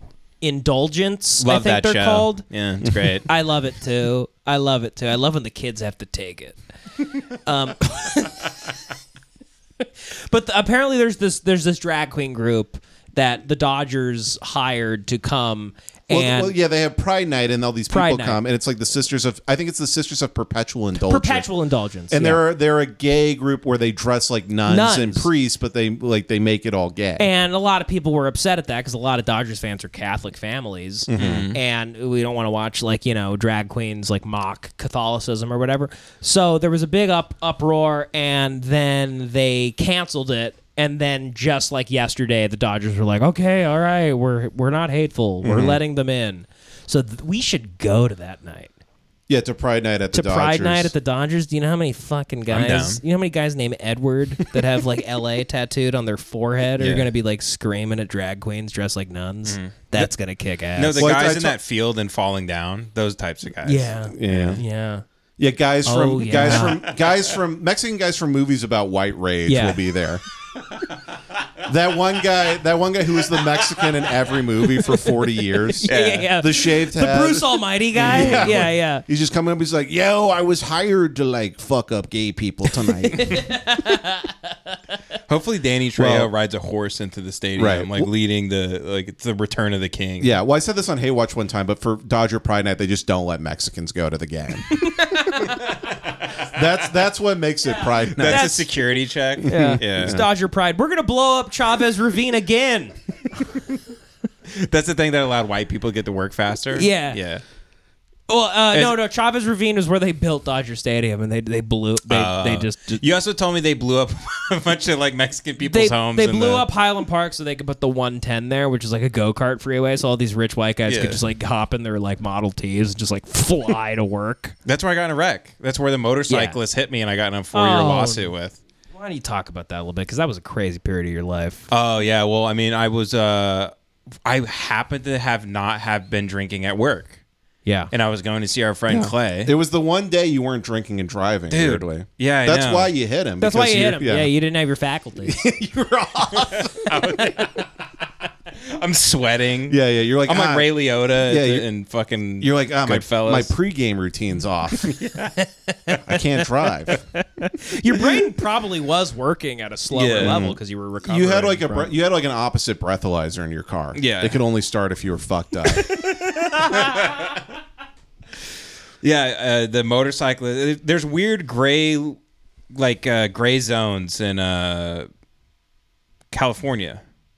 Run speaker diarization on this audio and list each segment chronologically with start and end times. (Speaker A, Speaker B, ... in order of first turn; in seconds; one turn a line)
Speaker A: 0.4-2.4
Speaker B: 1.4-3.3
Speaker C: 2.9-3.1
Speaker A: 3.3-6.6
Speaker A: 7.2-8.5
Speaker A: 10.0-16.5
Speaker C: 16.1-21.5
Speaker A: 17.9-18.4
Speaker A: 21.0-22.4
Speaker C: 22.1-27.3
Speaker A: 24.7-25.3
Speaker A: 27.2-48.7
Speaker C: 31.1-31.5
Speaker B: 31.1-31.6
Speaker C: 45.4-45.8
Speaker C: 49.3-50.9
Speaker A: 50.1-61.2
Speaker B: 52.5-53.0
Speaker B: 59.5-60.1
Speaker B: 60.8-64.6
Speaker C: 61.0-61.6
Speaker A: 63.6-65.0
Speaker C: 64.1-64.6
Speaker C: 65.4-70.2
Speaker A: 65.8-66.8
Speaker B: 66.5-66.8
Speaker A: 69.5-69.8
Speaker C: 71.6-83.5
Speaker A: 75.8-79.0
Speaker B: 75.9-76.3
Speaker B: 78.0-78.7
Speaker A: 83.0-84.8
Speaker B: 85.3-90.3
Speaker C: 86.0-86.3
Speaker C: 87.6-88.1
Speaker C: 90.2-95.2
Speaker A: 94.7-95.6
Speaker C: 96.4-98.6
Speaker A: 98.0-98.7
Speaker B: 98.2-100.2
Speaker C: 99.4-100.3
Speaker A: 99.5-103.0
Speaker B: 104.5-107.4
Speaker A: 106.8-107.2
Speaker A: 108.3-113.0
Speaker B: 112.1-116.7
Speaker A: 115.6-124.5
Speaker B: 120.9-121.2
Speaker B: 124.7-128.6
Speaker A: 126.3-126.6
Speaker A: 127.5-128.3
Speaker A: 128.9-131.7
Speaker B: 131.7-133.7
Speaker B: 134.2-137.2
Speaker A: 137.7-137.9
Speaker B: 137.9-139.5
Speaker C: 138.9-144.3
Speaker B: 141.5-142.9
Speaker A: 143.4-145.4
Speaker C: 145.2-146.9
Speaker B: 146.5-147.7
Speaker A: 147.2-147.5
Speaker B: 148.5-153.5
Speaker C: 149.7-151.7
Speaker C: 152.4-154.9
Speaker B: 154.9-155.5
Speaker C: 156.1-157.0
Speaker A: 156.9-161.9
Speaker B: 159.9-160.5
Speaker C: 160.2-166.0
Speaker B: 163.9-164.4
Speaker A: 165.8-167.1
Speaker B: 166.6-167.4
Speaker B: 169.0-172.2
Speaker B: 172.7-175.1
Speaker B: 176.3-177.0